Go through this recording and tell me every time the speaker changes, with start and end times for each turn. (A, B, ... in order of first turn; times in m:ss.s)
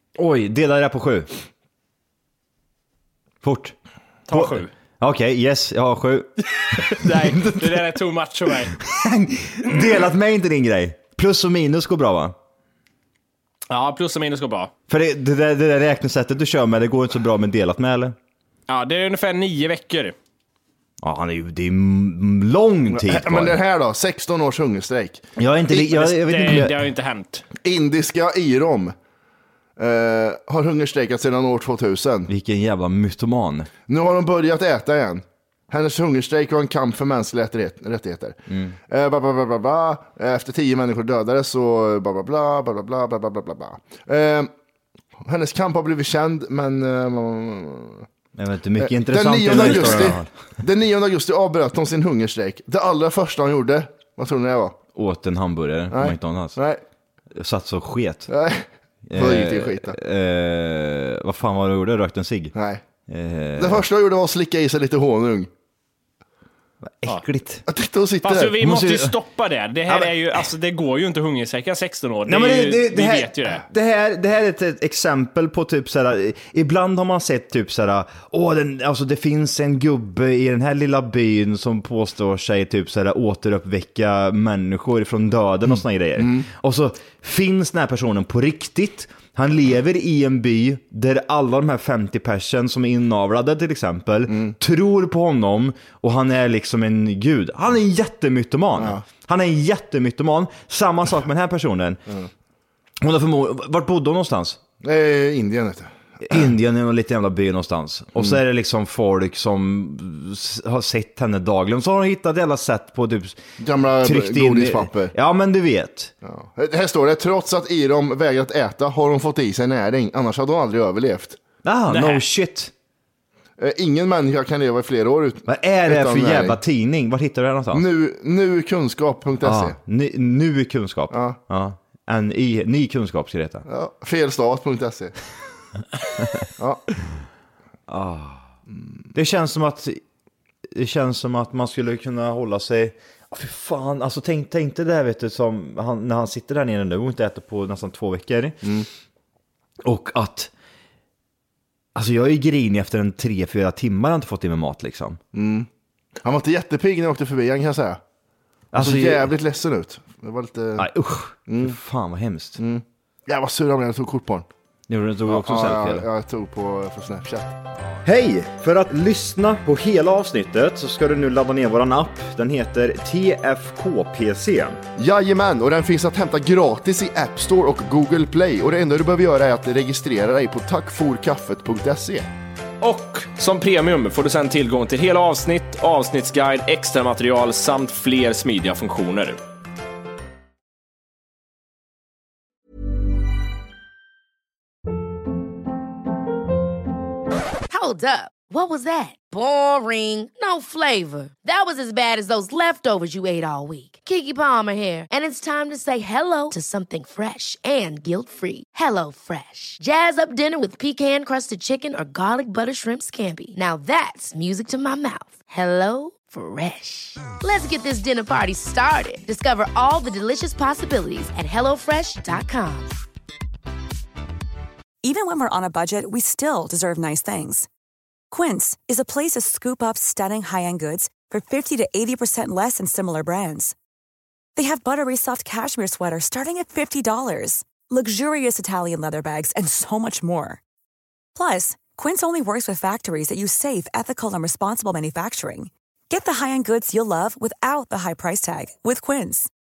0:00.2-0:01.3 A
0:03.4-0:03.7 A
0:04.3-0:04.7 B
0:04.3-0:07.8 A
0:06.6-0:08.8 B
0:08.8-0:12.3 A
0:13.7-0:14.7 B
0:14.9-0:18.2 A
0:18.7-0:20.1 B
0:21.0-0:23.6 A
0:22.9-0:25.2 C
0:25.4-0:26.8 A
0:25.7-0:27.4 B
0:27.6-0:28.9 C
0:29.8-0:32.3 C
0:32.3-0:33.7 A
0:33.9-0:38.4 C
0:38.5-0:38.8 A
0:38.9-0:44.5 C
0:45.2-0:48.1 C
0:48.4-0:50.3 A
0:48.8-0:54.8 C
0:54.9-0:56.6 A
0:55.9-0:56.8 C
0:57.3-0:58.3 A
0:58.3-1:00.0 C
0:59.1-1:02.5 A
1:02.5-1:02.8 C
1:03.1-1:03.8 A
1:03.6-1:05.5 C
1:07.0-1:07.6 A
1:07.7-1:08.6 C
1:08.2-1:13.6 B
1:08.6-1:09.2 A
1:12.3-1:42.0 A
1:34.3-1:34.5 C
1:38.8-1:39.0 C
1:43.0-1:44.6 A
1:44.8-1:46.4 C
1:46.2-1:53.4 A
1:53.6-1:55.1 C
1:54.0-1:56.1 A
1:56.2-2:01.4 C
2:01.6-2:02.7 A
2:01.9-2:02.2 B
2:03.6-2:06.6 C
2:05.5-2:07.8 A
2:07.7-2:09.8 C
2:09.4-2:13.6 A
2:11.1-2:11.4 C
2:13.7-2:15.1 C
2:16.6-2:16.8 C
2:17.9-2:18.4 A
2:19.1-2:20.0 A
2:20.7-2:28.6 A
2:29.8-2:30.5 A
2:31.9-2:35.2 A
2:35.3-2:35.7 C
2:36.2-2:38.0 C
2:38.7-2:39.3 A
2:38.7-2:40.9 C
2:40.8-2:42.6 A
2:41.5-2:41.8 C
2:42.6-2:44.5 C
2:44.9-2:46.0 A
2:45.2-2:47.6 C
2:48.0-2:54.8 A
2:55.0-3:02.3 C
3:02.8-3:09.4 B
3:17.7-3:42.9 D
3:45.0-3:47.7 E
3:48.3-3:53.8 E
3:54.5-4:00.6 E
4:01.3-4:09.5 E